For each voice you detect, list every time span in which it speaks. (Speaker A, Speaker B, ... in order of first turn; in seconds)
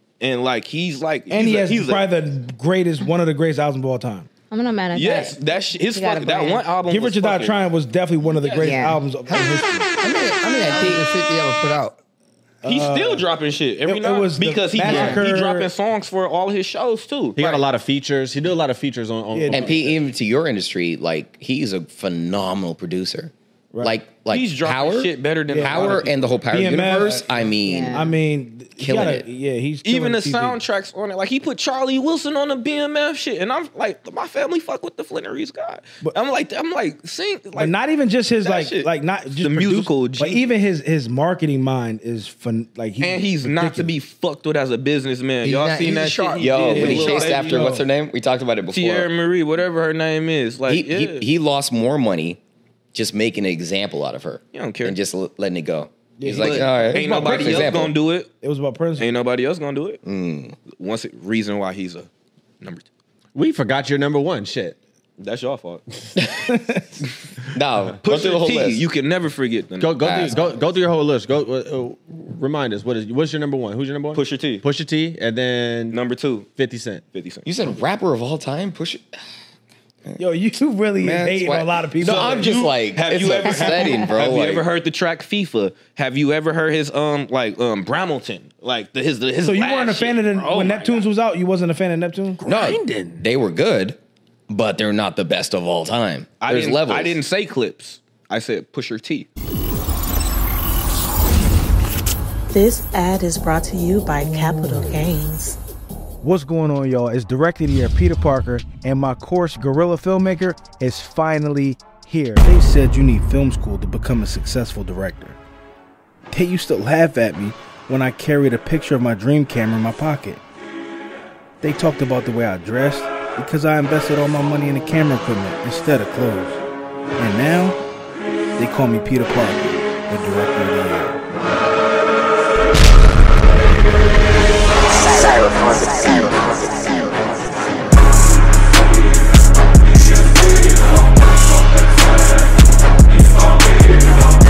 Speaker A: 0.2-2.0, 4.9-7.6, 8.4-8.7, 12.6-17.6, 24.3-26.2, 29.8-37.7, 38.4-40.5, 43.0-47.8, 48.7-51.3, 54.5-55.0, 56.4-58.3, 59.0-60.0, 60.7-62.1, 62.6-62.9, 65.2-65.8, 68.0-70.5, 74.1-74.6, 75.9-76.5, 77.1-77.5, 82.0-91.1, 92.4-93.1, 96.4-99.3
Speaker B: 1.3-4.3, 6.9-9.9, 12.6-13.3, 13.8-15.7, 19.3-19.8, 25.5-30.6, 37.5-43.9, 46.8-47.9, 56.2-57.8, 58.4-59.1, 66.5-66.8, 80.2-82.5, 89.4-92.4, 106.2-115.4, 116.3-120.4, 121.6-126.6, 127.2-127.8, 128.6-131.2
Speaker C: 4.5-6.7, 8.6-9.1, 14.9-15.2, 27.6-28.2
Speaker D: 10.0-12.0, 45.4-47.1
Speaker E: 17.4-20.0, 63.4-64.8, 69.8-76.0, 76.6-77.0
Speaker F: 19.5-28.0, 28.8-29.2, 46.4-49.1, 50.7-52.4, 52.9-58.0, 60.0-60.6, 66.2-66.4, 67.5-68.8, 70.0-70.5, 77.5-79.0, 81.0-84.7, 92.5-94.0, 94.5-97.2
Speaker G: 102.5-105.6